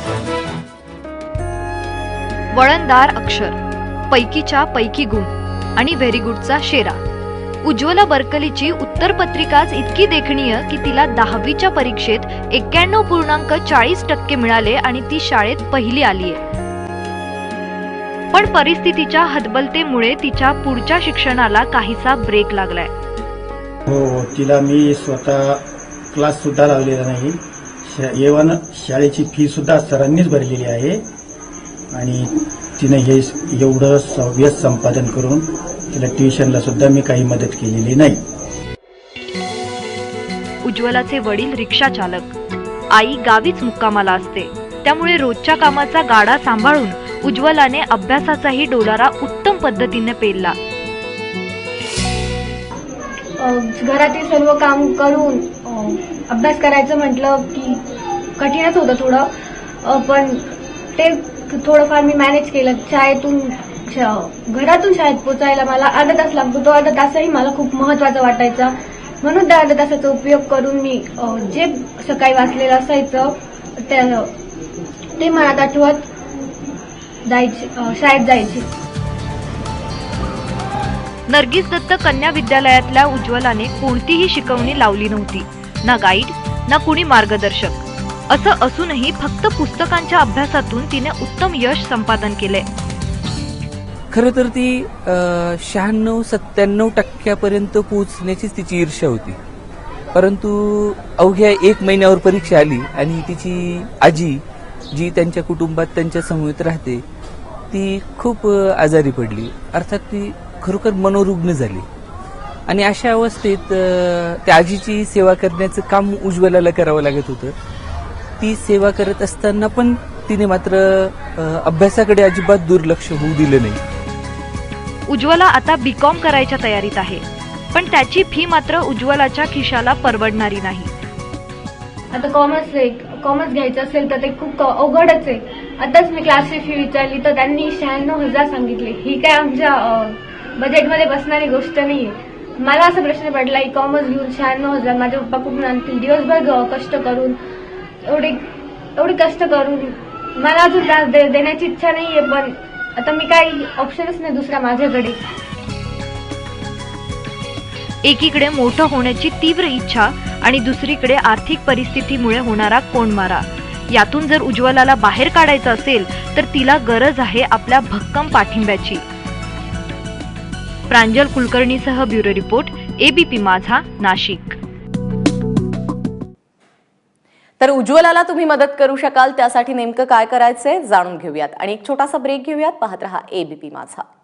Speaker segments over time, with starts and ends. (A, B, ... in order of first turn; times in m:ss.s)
0:02.5-0:03.6 A
0:04.1-0:07.0 A
0:07.6-0:16.4 A
0:18.3-0:22.9 A
0:23.9-0:31.0 B
0:31.9-0:38.2 B
0:40.6-0:42.3 A
0:42.9-0:50.6 A
0:53.4-0:57.8 C
0:58.4-0:59.3 C
0:59.8-1:00.4 C
1:01.0-1:14.3 C
1:15.2-1:16.1 C
1:17.2-1:18.7 C
1:21.3-1:32.7 A
1:34.1-1:39.4 D
1:40.1-1:44.4 D
1:44.9-1:47.0 D
1:47.7-1:51.9 D
1:52.7-1:57.6 D
1:58.4-2:03.8 D
2:05.1-2:07.2 A
2:07.7-2:10.9 A
2:12.1-2:27.4 C
2:28.0-2:28.4 C
2:29.0-2:35.2 C
2:38.0-2:49.0 A
2:50.9-2:54.6 A
2:57.6-3:04.0 E